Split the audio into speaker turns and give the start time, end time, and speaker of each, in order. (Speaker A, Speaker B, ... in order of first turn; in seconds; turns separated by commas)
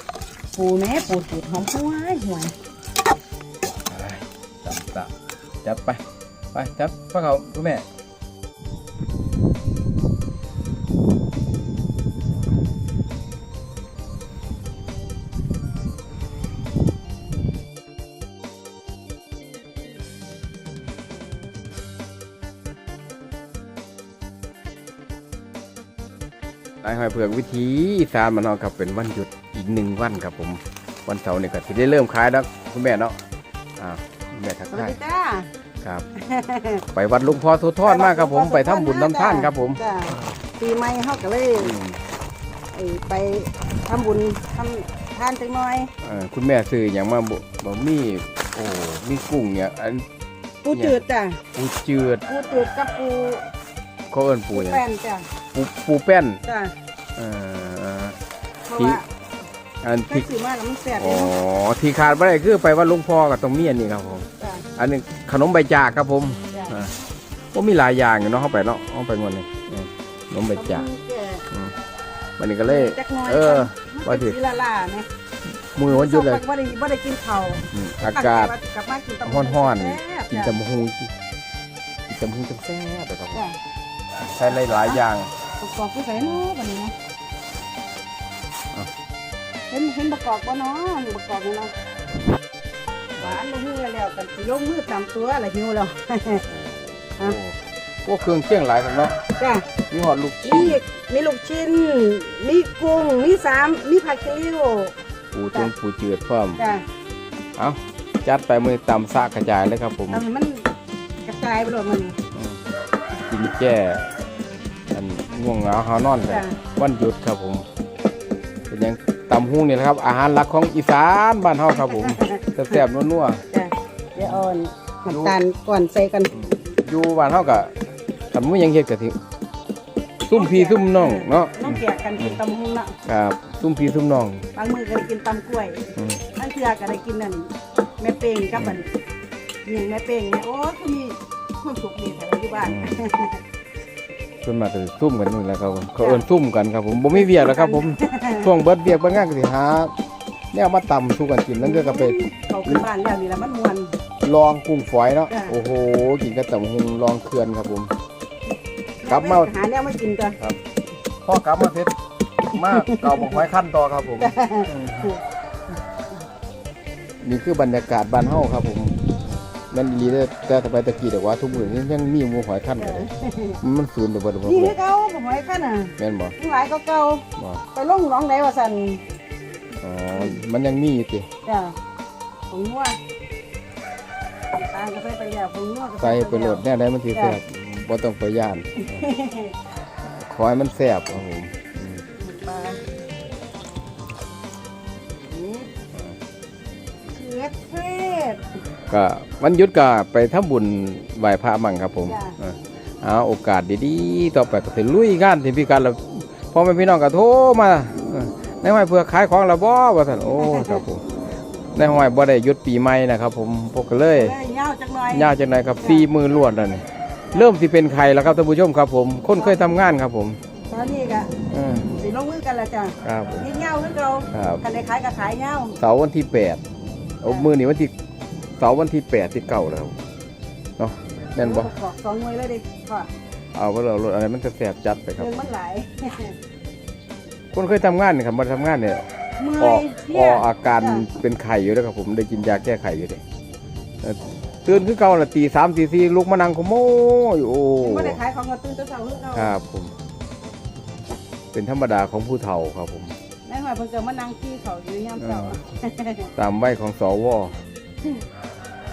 Speaker A: 0.5-2.5, Speaker B: 3.6-5.1, Speaker B: 5.6-6.0, Speaker B: 6.5-7.8, Speaker B: 26.8-33.2, Speaker B: 33.8-35.0, Speaker A: 34.7-35.5, Speaker A: 36.2-36.8, Speaker B: 36.9-39.8, Speaker A: 37.9-41.8, Speaker B: 41.6-42.0, Speaker A: 42.7-45.9, Speaker B: 46.0-50.0, Speaker A: 50.6-51.4, Speaker B: 50.7-51.0, Speaker B: 51.5-52.2, Speaker A: 52.3-53.5, Speaker B: 54.1-54.8, Speaker A: 54.6-55.3, Speaker B: 55.5-56.4, Speaker A: 56.5-56.7, Speaker B: 57.2-58.2, Speaker A: 58.7-59.1, Speaker B: 58.8-59.0, Speaker B: 59.8-60.3, Speaker A: 60.1-61.3, Speaker B: 61.0-67.0, Speaker A: 64.4-64.7, Speaker B: 67.5-70.9, Speaker A: 70.5-71.5, Speaker B: 72.4-74.4, Speaker A: 72.7-75.1, Speaker B: 75.7-76.4, Speaker A: 75.8-80.5, Speaker B: 77.7-78.6, Speaker B: 79.2-81.1, Speaker B: 82.1-83.4, Speaker B: 84.4-85.3, Speaker A: 85.6-86.9, Speaker A: 89.7-91.7, Speaker A: 93.2-96.5, Speaker B: 96.4-99.2, Speaker A: 99.4-99.7, Speaker B: 99.9-100.8, Speaker A: 100.4-105.0, Speaker B: 105.3-106.6, Speaker A: 106.6-106.8, Speaker B: 107.6-110.2, Speaker A: 110.1-110.7, Speaker A: 111.2-112.2, Speaker B: 112.3-112.6, Speaker B: 113.3-114.0, Speaker B: 114.9-117.7, Speaker A: 116.2-116.6, Speaker B: 118.7-123.4, Speaker A: 122.0-122.4, Speaker A: 123.5-126.3, Speaker B: 125.1-125.4, Speaker B: 126.3-127.7, Speaker B: 128.3-129.2, Speaker B: 130.2-132.4, Speaker A: 130.3-132.9, Speaker B: 133.1-134.5, Speaker A: 134.5-138.9, Speaker B: 136.0-136.2, Speaker A: 139.7-143.4, Speaker B: 142.6-143.1, Speaker B: 144.4-149.9, Speaker A: 146.0-146.3, Speaker A: 147.1-148.5, Speaker B: 150.5-152.8, Speaker A: 151.6-153.9, Speaker B: 154.2-157.9, Speaker A: 159.0-160.4, Speaker B: 159.1-159.5, Speaker B: 161.2-161.9, Speaker B: 162.5-165.1, Speaker A: 162.8-163.3, Speaker A: 164.2-165.2, Speaker B: 167.2-173.1, Speaker A: 172.8-173.6, Speaker B: 173.6-174.8, Speaker A: 174.4-179.0, Speaker B: 176.0-176.4, Speaker B: 177.4-177.6, Speaker B: 179.8-181.3, Speaker A: 181.4-181.8, Speaker A: 182.5-183.0, Speaker A: 184.5-186.6, Speaker B: 186.0-188.9, Speaker A: 188.8-189.5, Speaker B: 190.1-192.0, Speaker A: 192.2-192.8, Speaker A: 195.2-195.7, Speaker A: 197.1-198.4, Speaker B: 198.9-211.1, Speaker A: 202.1-202.4, Speaker A: 210.4-210.8, Speaker B: 211.8-214.3, Speaker A: 214.2-216.1, Speaker B: 215.1-220.4, Speaker A: 219.3-219.6, Speaker A: 220.7-221.3, Speaker B: 221.5-221.9, Speaker A: 222.0-225.8, Speaker B: 223.0-223.5, Speaker B: 224.3-224.6, Speaker B: 225.8-226.6, Speaker B: 227.2-227.9, Speaker B: 228.6-230.0, Speaker B: 230.8-231.7, Speaker A: 231.4-233.1, Speaker B: 233.5-235.4, Speaker A: 235.2-236.3, Speaker B: 237.5-239.1, Speaker A: 239.4-241.1, Speaker B: 239.6-243.2, Speaker B: 244.0-248.2, Speaker A: 247.8-249.5, Speaker B: 249.3-249.9, Speaker B: 251.5-253.2, Speaker A: 253.5-256.3, Speaker B: 255.2-255.6, Speaker B: 256.4-257.6